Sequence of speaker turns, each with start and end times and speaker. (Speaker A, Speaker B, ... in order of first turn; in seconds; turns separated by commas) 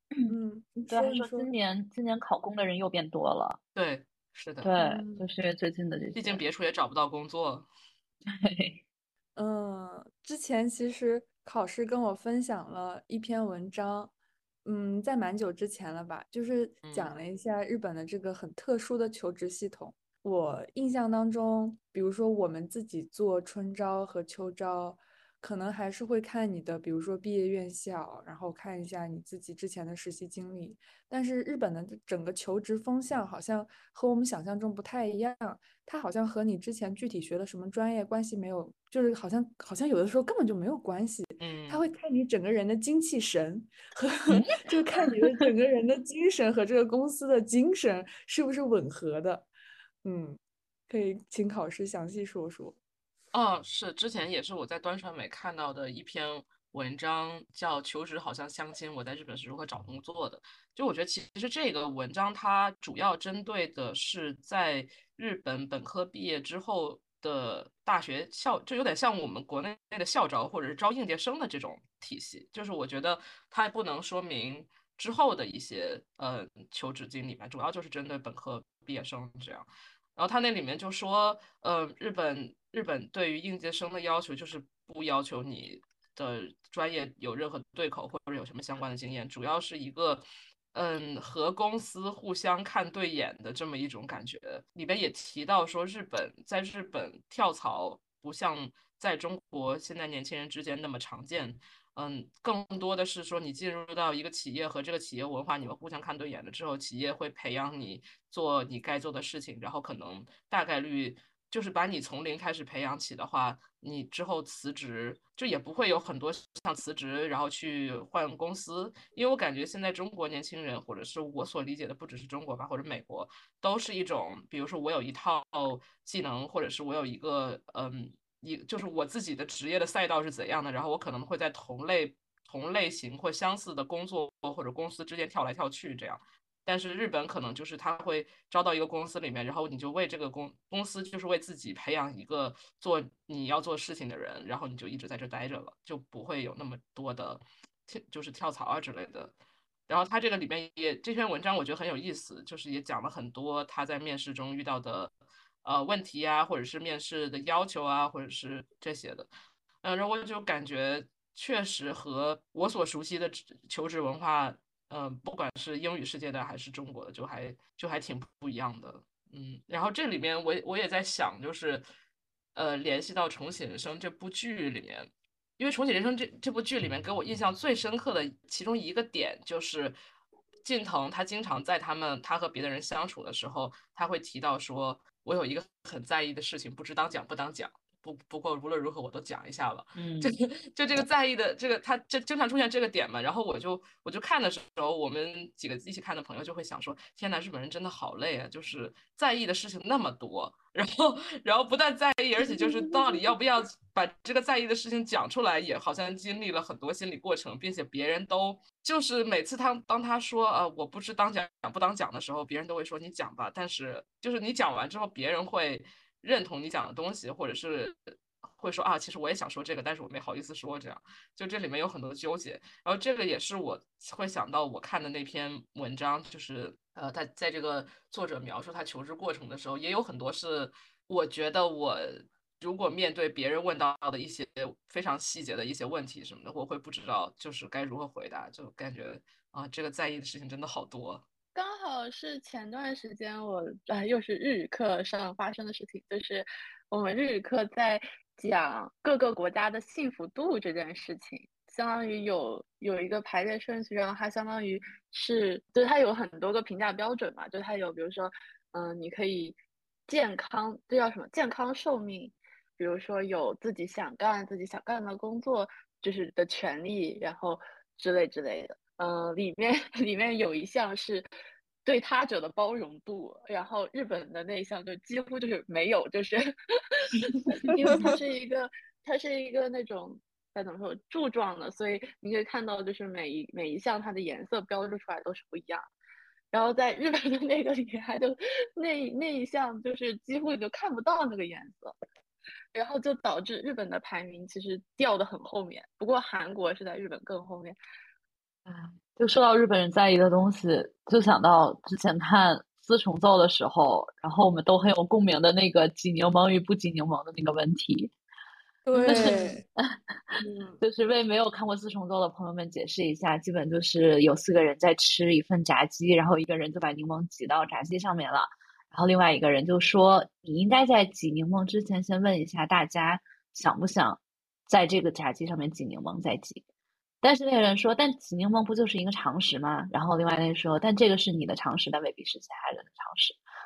Speaker A: 0.3-1.5, Speaker B: 0.9-3.6, Speaker C: 3.7-4.7, Speaker B: 4.6-6.4, Speaker A: 4.8-5.3, Speaker C: 6.1-7.7, Speaker B: 8.3-8.8, Speaker A: 9.3-14.1, Speaker A: 14.6-49.5, Speaker C: 16.8-17.1, Speaker C: 41.4-41.8, Speaker B: 44.3-44.6, Speaker A: 50.0-52.8, Speaker C: 53.3-149.3, Speaker C: 149.9-155.1, Speaker C: 155.6-159.3, Speaker C: 159.8-171.8, Speaker C: 172.5-179.9, Speaker C: 180.6-241.2, Speaker B: 189.9-190.3, Speaker D: 241.5-271.3, Speaker D: 271.8-276.4, Speaker D: 277.0-285.9, Speaker B: 277.6-278.1, Speaker D: 286.5-291.9, Speaker D: 292.7-297.8, Speaker B: 298.6-308.1, Speaker A: 308.9-309.6, Speaker B: 308.9-310.0, Speaker A: 310.4-310.8, Speaker B: 310.8-326.6, Speaker B: 327.2-333.4